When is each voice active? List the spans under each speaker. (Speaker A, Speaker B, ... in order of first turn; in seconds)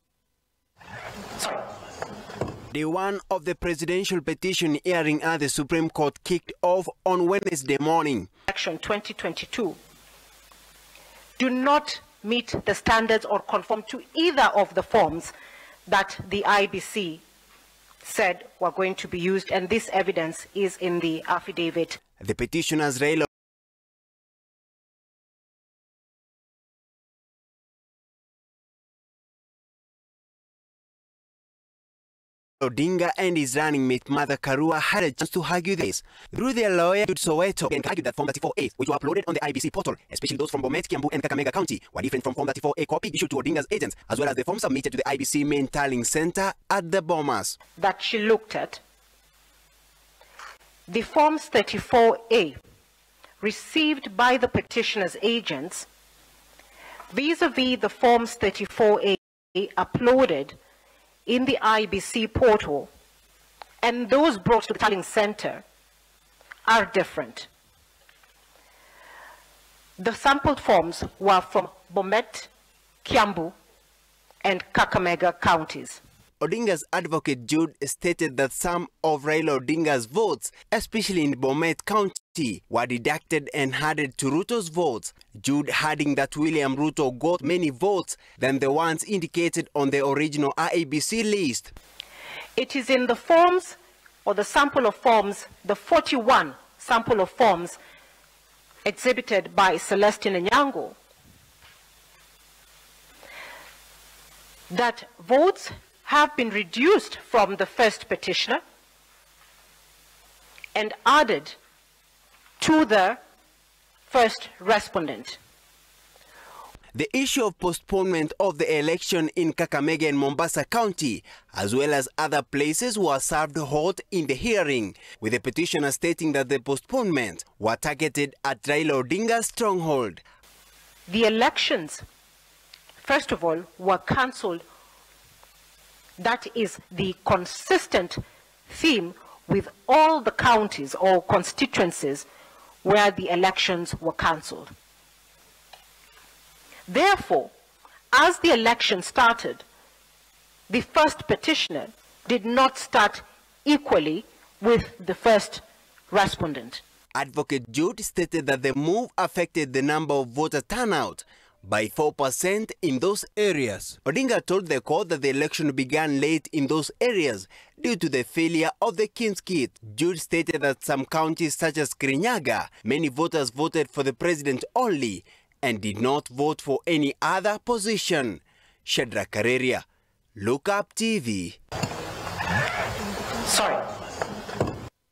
Speaker A: 2.7-8.3, 22.2-23.3, 32.6-47.6, 76.4-91.7, 116.9-130.2, 157.1-179.8, 180.3-181.6
Speaker B: 8.5-9.8, 11.4-15.3, 15.9-17.2, 18.0-22.0, 47.8-48.8, 50.9-52.6, 53.4-55.9, 57.1-60.6, 61.2-62.9, 63.8-65.6, 66.7-67.5, 70.0-72.5, 73.0-73.5, 74.4-76.0, 92.5-97.8, 98.8-101.0, 104.7-108.6, 110.7-111.5, 112.6-113.2, 114.1-115.4, 131.1-132.0, 133.0-134.6, 136.2-142.2, 142.8-144.7, 146.9-147.5, 148.1-149.6, 150.7-156.8, 183.4-183.8